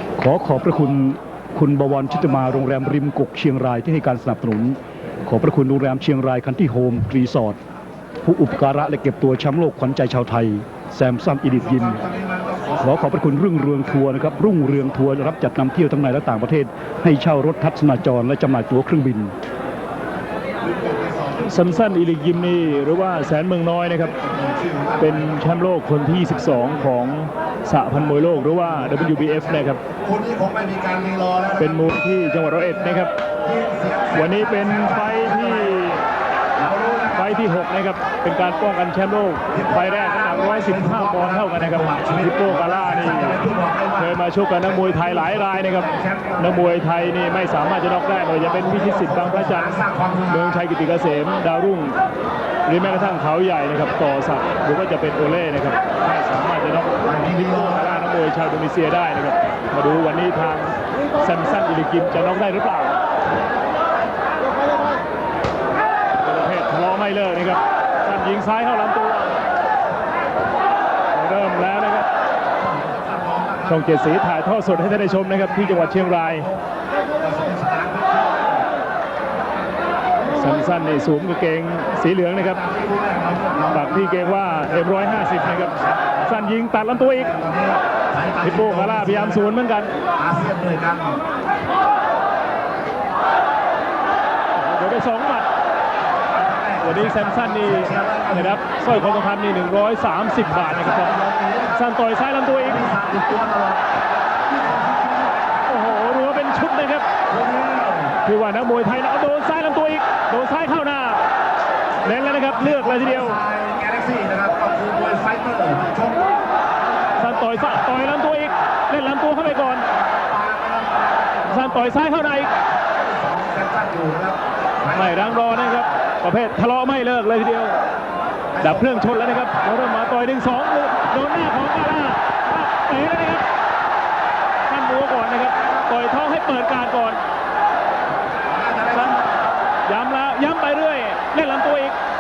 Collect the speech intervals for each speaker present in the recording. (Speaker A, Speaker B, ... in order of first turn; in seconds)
Speaker A: 0.2-7.6, 8.2-12.1, 12.8-19.3
Speaker B: 12.3-12.7, 20.9-21.3, 24.5-24.9, 30.0-31.6, 33.5-35.7, 36.6-37.1, 39.8-44.0, 44.9-46.4, 48.6-50.3, 57.2-57.6, 73.1-73.6, 75.1-76.5, 77.2-78.4, 82.7-84.7, 87.3-89.0, 90.2-91.2, 96.3-98.3, 100.6-101.7, 102.8-103.8, 104.7-105.5, 107.3-108.1, 112.7-116.3, 120.1-121.5, 122.9-125.5, 138.5-138.9
Speaker C: 21.4-24.1, 25.0-29.8, 31.6-33.1, 34.1-36.0, 37.1-52.0, 52.6-62.9, 66.2-69.3, 71.1-72.0, 73.7-76.5, 80.3-82.7, 83.7-87.3, 88.4-89.9, 94.5-95.5, 96.8-101.2, 101.7-102.8, 105.7-107.0, 108.2-111.2, 112.0-113.4, 117.2-119.9, 121.5-122.5, 124.9-127.8, 128.6-133.4, 134.7-137.2, 138.9-139.2, 139.9-141.9